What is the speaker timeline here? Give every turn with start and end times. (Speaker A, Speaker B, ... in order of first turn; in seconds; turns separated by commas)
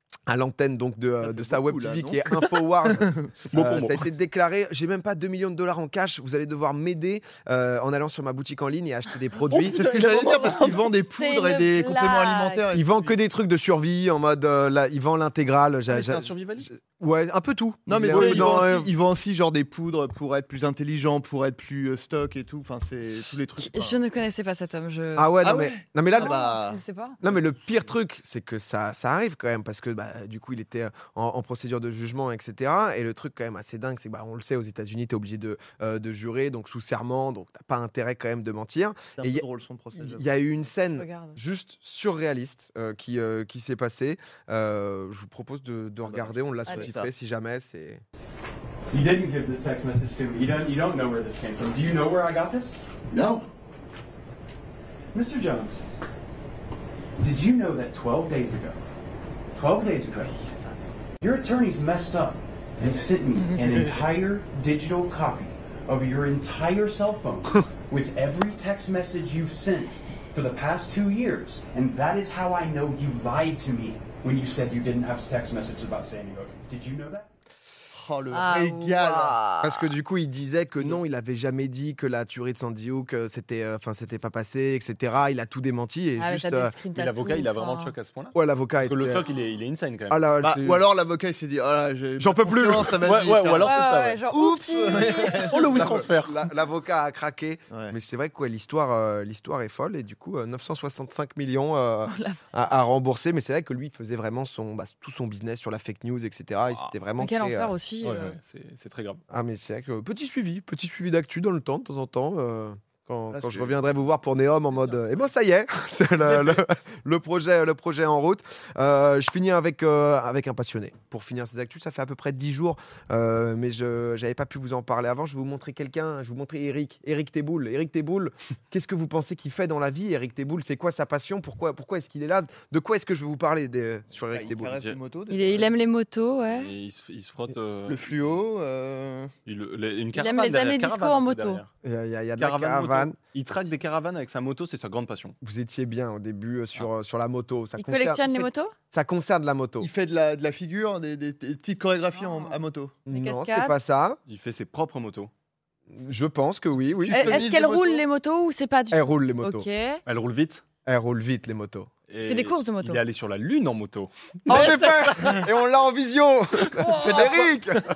Speaker A: 0.3-9.8, Speaker B: 1.2-3.4, Speaker C: 3.5-4.1, Speaker C: 9.5-10.9, Speaker B: 9.5-13.2, Speaker D: 11.1-12.6, Speaker A: 12.7-18.9, Speaker C: 15.9-16.7, Speaker B: 17.9-24.0, Speaker C: 18.1-18.7, Speaker D: 23.6-25.4, Speaker A: 25.2-26.5, Speaker B: 25.4-26.8, Speaker D: 26.2-27.2, Speaker A: 27.2-48.0, Speaker B: 39.2-40.4, Speaker D: 41.0-41.4, Speaker B: 46.0-47.1, Speaker D: 46.7-46.9, Speaker E: 48.9-52.8, Speaker B: 53.1-53.5, Speaker E: 55.1-55.9, Speaker E: 57.2-58.8, Speaker E: 59.5-60.4, Speaker B: 60.2-60.8, Speaker E: 61.2-77.3, Speaker B: 77.9-79.4, Speaker D: 78.3-79.9, Speaker A: 79.6-86.8, Speaker D: 86.2-87.9, Speaker C: 87.0-90.8, Speaker A: 88.3-89.2, Speaker A: 90.1-90.8, Speaker B: 90.4-96.0, Speaker A: 92.2-93.1, Speaker C: 93.0-94.2, Speaker D: 93.6-95.6, Speaker A: 94.5-95.2, Speaker C: 95.2-96.3, Speaker A: 95.7-107.7, Speaker B: 97.7-98.0, Speaker D: 102.1-102.4, Speaker D: 107.2-108.4, Speaker C: 108.0-109.2, Speaker A: 109.3-134.9, Speaker B: 113.3-113.8, Speaker B: 134.3-135.7, Speaker D: 135.3-136.7, Speaker C: 136.5-138.4, Speaker B: 137.9-139.3, Speaker C: 139.5-141.7, Speaker D: 140.1-141.6, Speaker A: 141.8-143.2, Speaker C: 142.4-145.3, Speaker A: 145.4-149.9, Speaker D: 147.8-148.7, Speaker B: 149.8-153.0, Speaker D: 152.2-152.6, Speaker A: 153.1-154.2, Speaker D: 153.1-153.8, Speaker C: 154.3-155.3, Speaker A: 155.9-157.4, Speaker B: 157.0-158.0, Speaker D: 157.1-160.0, Speaker A: 158.9-159.7, Speaker C: 160.1-160.6, Speaker A: 160.9-161.9, Speaker C: 162.1-165.3, Speaker D: 162.2-163.0, Speaker A: 164.5-167.8, Speaker B: 167.0-167.5